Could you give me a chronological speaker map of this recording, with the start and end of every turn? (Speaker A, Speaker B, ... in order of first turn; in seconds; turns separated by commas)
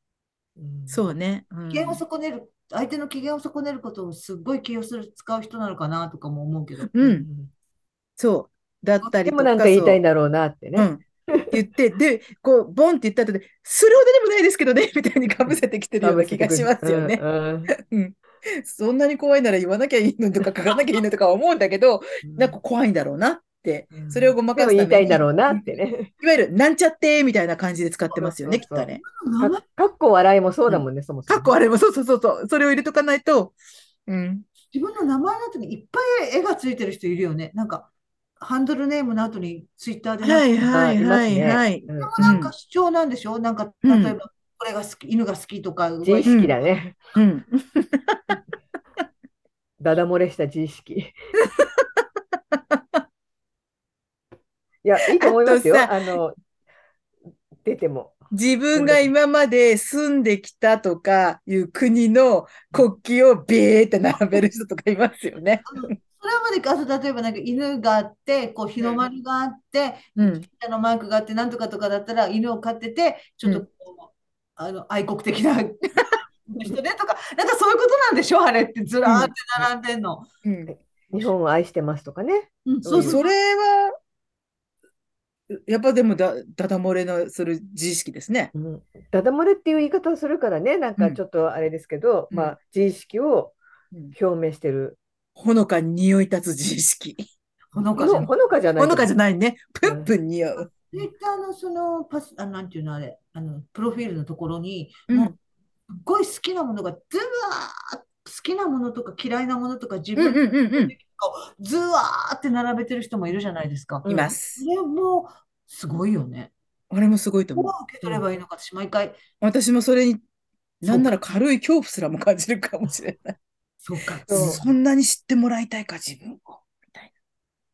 Speaker A: 0.6-1.0, Speaker B: 0.9-2.0, Speaker C: 1.7-6.9, Speaker B: 6.9-7.3, Speaker A: 7.0-7.5, Speaker B: 8.2-10.0, Speaker A: 9.2-11.6, Speaker B: 10.8-29.0, Speaker A: 15.5-17.7, Speaker A: 22.2-22.6, Speaker A: 23.9-26.1, Speaker A: 28.1-28.9, Speaker C: 29.0-29.6, Speaker A: 29.4-31.5, Speaker B: 30.7-33.5, Speaker B: 34.1-34.4, Speaker C: 34.7-40.5, Speaker B: 40.2-42.5, Speaker A: 40.6-42.4, Speaker C: 41.9-46.6, Speaker B: 43.8-44.2, Speaker A: 46.0-47.0, Speaker B: 46.3-46.5, Speaker B: 47.1-48.4, Speaker A: 49.8-51.1, Speaker B: 51.4-51.8, Speaker B: 52.5-53.0, Speaker A: 54.8-56.4, Speaker B: 55.1-56.1, Speaker A: 57.6-58.2, Speaker B: 58.3-65.9, Speaker A: 58.7-59.1, Speaker C: 65.7-80.3, Speaker B: 70.2-70.4, Speaker B: 79.0-79.6, Speaker B: 80.4-80.7, Speaker A: 80.7-83.2, Speaker C: 82.7-83.3, Speaker B: 83.0-83.9, Speaker B: 85.5-88.5, Speaker A: 88.5-93.5, Speaker A: 94.1-95.0, Speaker B: 95.3-97.3, Speaker C: 97.7-98.4, Speaker A: 98.0-99.1, Speaker B: 98.8-100.7, Speaker A: 99.8-100.1, Speaker C: 100.7-105.3, Speaker C: 105.9-116.5, Speaker B: 110.2-110.9, Speaker A: 114.0-114.3, Speaker B: 114.0-114.6, Speaker B: 116.9-117.7, Speaker C: 117.5-119.2, Speaker B: 119.4-120.2, Speaker B: 120.8-123.3, Speaker C: 123.8-124.8, Speaker B: 124.3-127.1, Speaker A: 124.3-124.6